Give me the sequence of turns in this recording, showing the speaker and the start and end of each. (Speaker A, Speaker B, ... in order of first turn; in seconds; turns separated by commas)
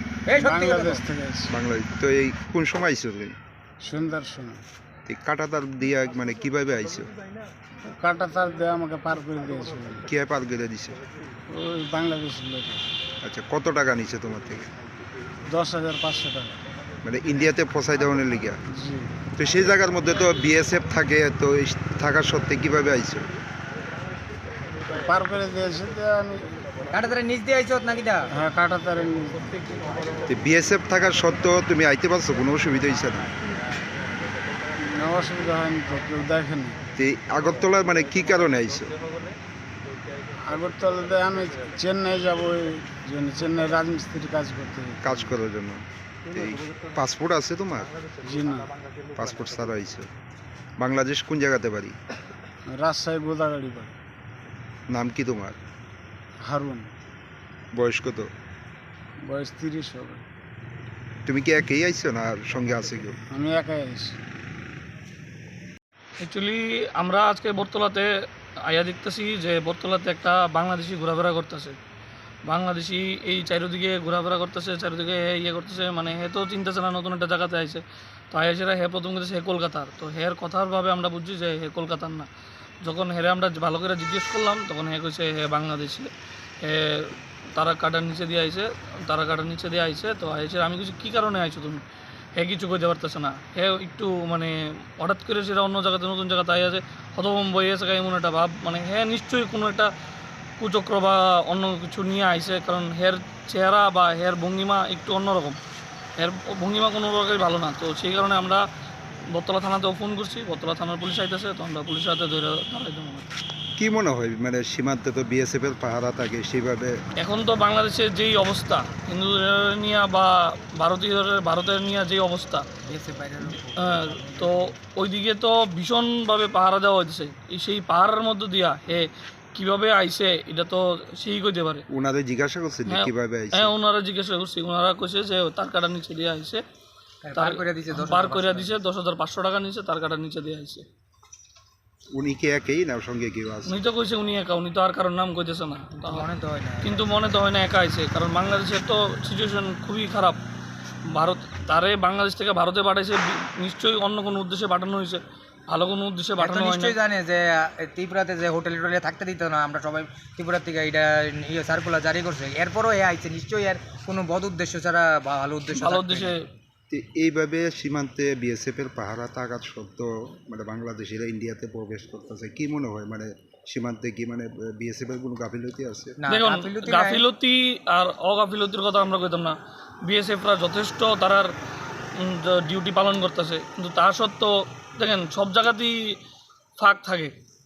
Speaker A: 0.3-1.0, Speaker B: 0.3-1.5, Speaker C: 1.5-3.3, Speaker B: 3.8-4.6, Speaker C: 5.1-7.1, Speaker B: 7.8-10.1, Speaker C: 10.1-11.0, Speaker B: 11.5-12.9, Speaker C: 13.2-14.7, Speaker B: 15.5-16.6, Speaker C: 17.0-18.6, Speaker B: 18.7-19.1, Speaker C: 19.4-23.3, Speaker B: 24.9-26.5, Speaker A: 26.9-28.3, Speaker B: 28.3-29.5, Speaker C: 30.3-33.3, Speaker B: 34.8-36.8, Speaker C: 37.0-39.0, Speaker B: 40.4-45.4, Speaker C: 45.0-47.9, Speaker B: 48.2-48.7, Speaker C: 49.1-50.1, Speaker C: 50.8-52.0, Speaker B: 52.7-53.9, Speaker C: 54.9-55.6, Speaker B: 56.4-56.9, Speaker C: 57.7-58.3, Speaker B: 59.2-60.2, Speaker C: 61.2-63.2, Speaker B: 63.3-64.2, Speaker D: 66.2-71.8, Speaker D: 72.5-82.3, Speaker D: 82.8-86.1, Speaker D: 86.6-91.8, Speaker D: 92.4-99.9, Speaker D: 100.6-105.6, Speaker D: 106.2-108.6, Speaker D: 109.3-113.3, Speaker C: 113.8-117.0, Speaker D: 117.2-122.7, Speaker A: 122.8-124.5, Speaker D: 123.8-131.8, Speaker C: 131.9-133.7, Speaker D: 132.9-136.6, Speaker A: 137.2-138.7, Speaker D: 137.3-140.8, Speaker C: 142.1-143.7, Speaker D: 143.7-146.3, Speaker A: 146.0-147.1, Speaker D: 146.8-150.4, Speaker D: 151.1-156.9, Speaker A: 156.4-166.3, Speaker D: 165.7-166.5, Speaker C: 166.9-176.2, Speaker A: 176.2-177.2, Speaker D: 176.3-181.5, Speaker D: 182.1-186.2, Speaker D: 186.8-187.3